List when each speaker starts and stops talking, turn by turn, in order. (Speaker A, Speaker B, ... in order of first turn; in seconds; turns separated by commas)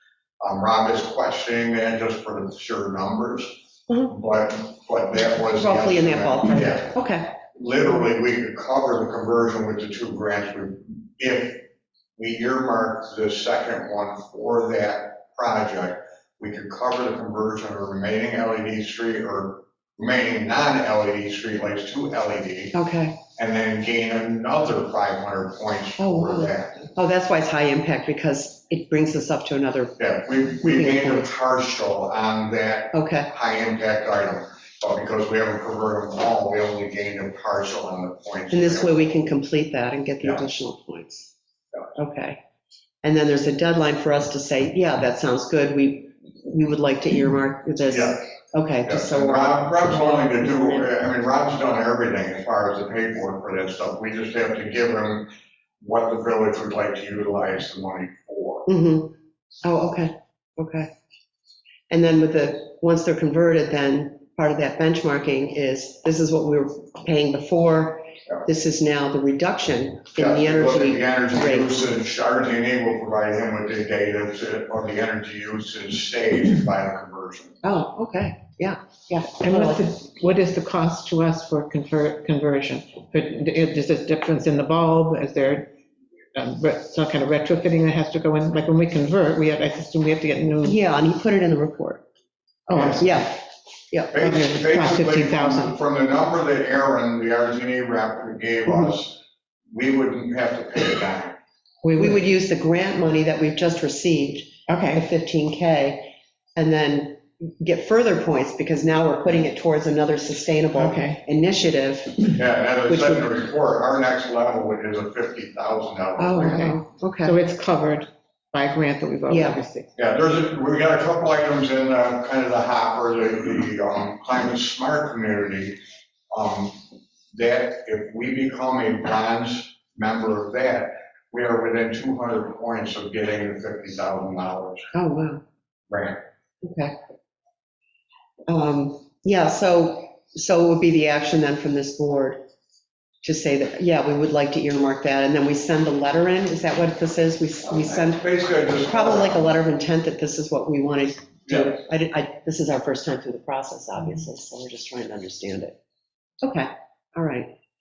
Speaker A: 0.4-7.0, Speaker B: 5.5-7.4, Speaker A: 7.5-22.8, Speaker B: 22.7-23.2, Speaker A: 23.3-26.9, Speaker B: 26.0-30.0, Speaker A: 30.0-39.2, Speaker B: 30.6-31.3, Speaker B: 32.9-33.3, Speaker B: 38.5-41.3, Speaker B: 42.0-42.4, Speaker B: 43.0-50.9, Speaker A: 47.9-48.2, Speaker A: 48.9-58.7, Speaker B: 58.7-59.1, Speaker B: 59.6-60.9, Speaker B: 61.9-71.8, Speaker A: 70.2-77.6, Speaker B: 77.6-80.0, Speaker C: 79.4-85.7, Speaker C: 86.3-90.7, Speaker B: 90.6-92.0, Speaker A: 92.7-93.1, Speaker C: 92.7-93.0, Speaker B: 93.0-93.4, Speaker B: 93.9-94.3, Speaker A: 94.1-101.4, Speaker C: 94.3-95.7, Speaker B: 101.8-112.2, Speaker C: 104.7-105.0, Speaker A: 112.3-116.8, Speaker B: 116.2-117.3, Speaker C: 117.2-119.9, Speaker B: 119.3-119.6, Speaker A: 120.0-125.8, Speaker A: 126.3-134.9, Speaker B: 134.9-135.4, Speaker A: 135.9-136.2, Speaker B: 136.6-136.9, Speaker B: 138.5-142.4, Speaker B: 143.2-155.8, Speaker A: 147.7-149.5, Speaker A: 151.5-151.8, Speaker B: 156.4-157.5